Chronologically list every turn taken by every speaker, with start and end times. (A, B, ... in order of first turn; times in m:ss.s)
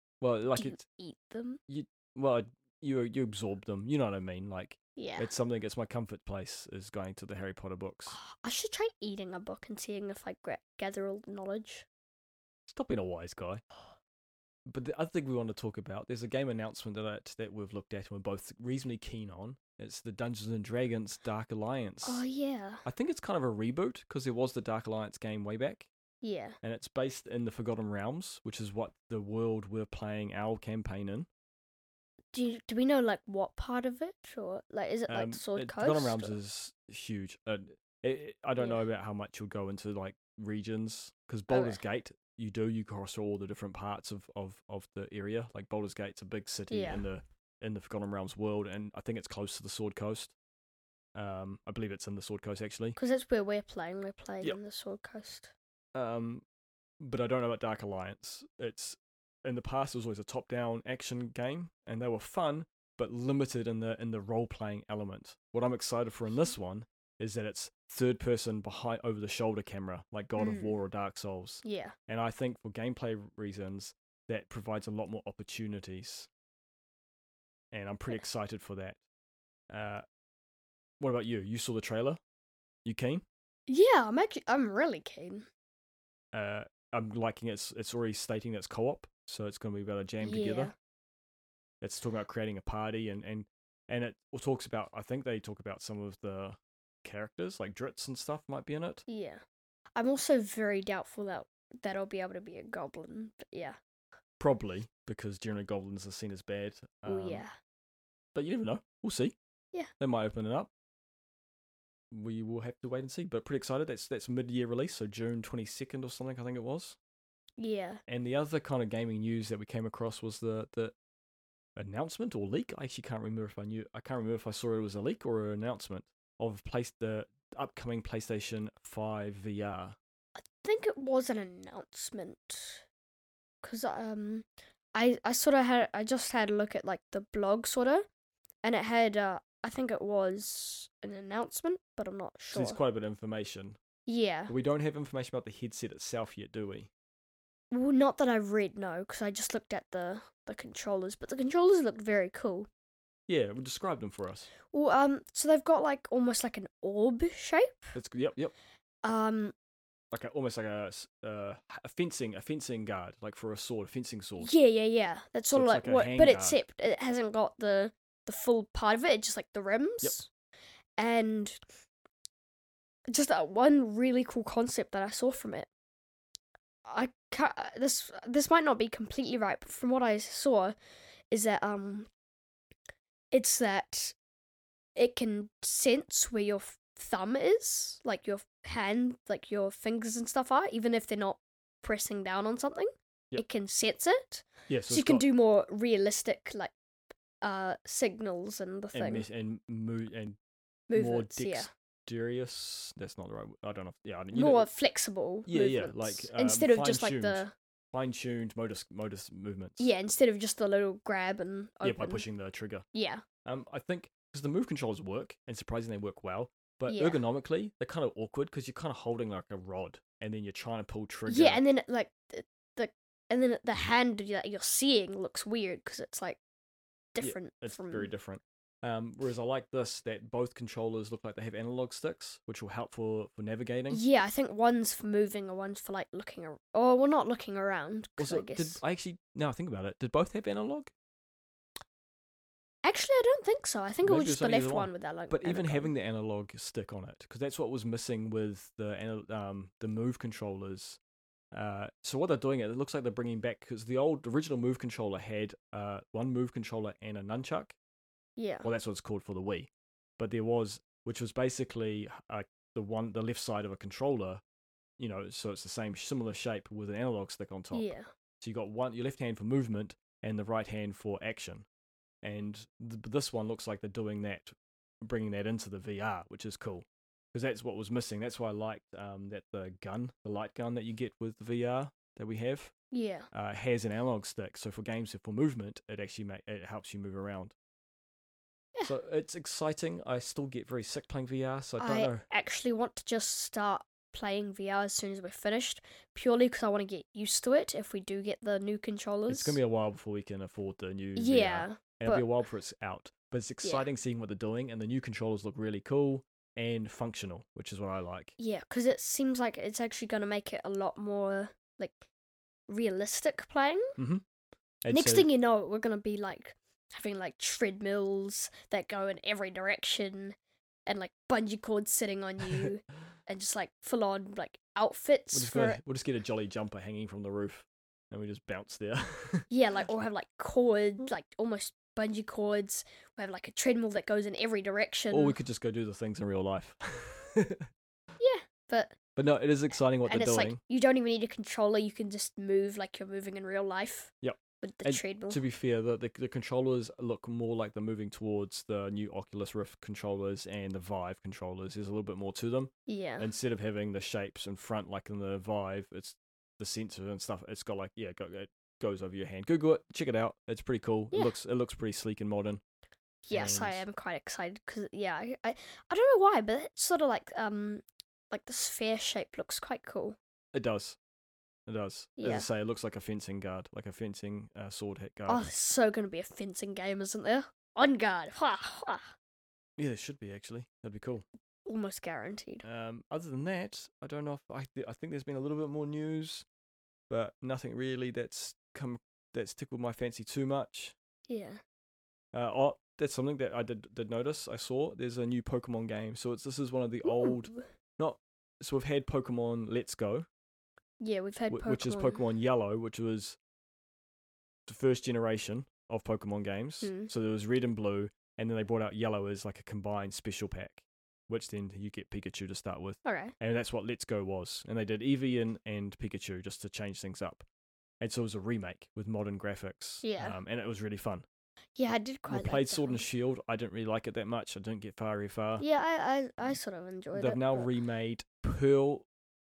0:00.2-0:00.8 A
0:00.6-0:01.6 B
0:01.7-0:08.2 A
0:05.0-0:05.3 B
0:08.1-0:11.9 B
0:12.7-0:13.6 A
0:14.7-0:22.2 A
0:22.0-0:22.8 B
0:22.8-0:25.9 A
0:26.2-0:26.6 B
0:26.6-0:31.3 A
0:32.3-0:36.4 B
0:35.1-0:50.4 A
0:41.5-0:41.8 B
0:46.7-0:47.0 B
0:51.2-0:53.0 A
0:53.0-0:55.5 B
0:56.0-0:56.4 A
0:57.0-1:16.3 A
1:10.4-1:10.8 B
1:11.6-1:12.0 B
1:17.7-1:19.0 A
1:19.7-1:20.0 A
1:21.0-1:22.2 A
1:22.8-1:23.2 A
1:23.7-1:25.5 B
1:26.3-1:30.7 A
1:30.2-1:30.7 B
1:31.8-1:39.0 A
1:39.1-1:39.4 B
1:40.0-1:43.8 B
1:44.4-1:47.4 A
1:47.1-1:47.5 B
1:48.3-1:49.4 A
1:50.0-1:50.7 A
1:52.1-1:57.0 A
1:57.6-1:58.0 B
1:58.1-2:00.9 A
2:01.8-2:10.0 A
2:10.4-2:12.9 B
2:13.6-2:18.1 B
2:18.6-2:22.8 B
2:22.5-2:23.8 A
2:24.1-2:24.5 B
2:24.5-2:26.9 A
2:27.7-2:32.7 B
2:33.3-2:34.5 A
2:34.6-2:38.0 B
2:37.9-2:38.5 A
2:39.0-2:39.6 B
2:40.1-2:44.5 A
2:44.4-2:50.3 B
2:45.5-2:46.6 A
2:51.0-2:51.6 B
2:53.1-2:55.7 B
2:56.8-3:00.8 B
3:01.3-3:02.1 B
3:03.3-3:04.2 B
3:05.0-3:16.7 B
3:14.7-3:15.3 A
3:17.4-3:19.3 B
3:18.9-3:20.4 A
3:20.9-3:21.7 B
3:21.0-3:24.7 A
3:24.3-3:27.5 B
3:25.5-3:29.9 A
3:29.8-3:32.2 B
3:31.8-3:32.9 A
3:32.9-3:33.2 B
3:33.4-3:41.6 A
3:36.9-3:37.2 B
3:41.3-3:46.4 B
3:47.1-3:48.1 B
3:47.2-3:54.0 A
3:53.9-3:58.8 B
3:58.2-4:00.9 A
4:02.8-4:05.9 B
4:04.0-4:11.0 A
4:11.5-4:17.8 A
4:18.4-4:18.7 B
4:18.6-4:24.4 A
4:25.0-4:31.7 A
4:27.7-4:28.1 B
4:32.2-4:42.7 A
4:42.9-4:43.3 B
4:43.3-4:47.6 A
4:48.8-4:52.3 A
4:51.8-4:59.6 B
4:59.3-5:08.4 A
5:01.2-5:02.3 B
5:03.6-5:03.9 B
5:08.4-5:12.1 B
5:12.7-5:13.9 B
5:14.0-5:14.2 A
5:14.8-5:15.3 A
5:14.9-5:25.8 B
5:25.3-5:29.5 A
5:29.5-5:35.4 B
5:35.1-5:37.7 A
5:38.2-5:39.0 B
5:39.2-5:40.6 A
5:40.1-5:45.4 B
5:44.2-6:02.6 A
5:52.9-5:53.3 B
6:03.3-6:10.2 B
6:03.3-6:03.8 A
6:10.5-6:11.0 A
6:11.7-6:15.5 A
6:12.2-6:12.5 B
6:15.3-6:19.1 B
6:19.8-6:21.2 A
6:21.7-6:22.6 B
6:22.6-6:26.5 A
6:27.1-6:31.0 A
6:31.3-6:31.6 B
6:32.3-6:40.3 A
6:37.0-6:37.7 B
6:41.0-6:42.2 B
6:41.5-6:43.4 A
6:44.7-6:57.4 A
6:46.8-6:47.1 B
6:53.0-6:53.3 B
6:58.0-7:01.3 A
7:00.0-7:00.4 B
7:01.8-7:03.0 B
7:02.3-7:05.6 A
7:05.6-7:07.7 B
7:07.2-7:09.1 A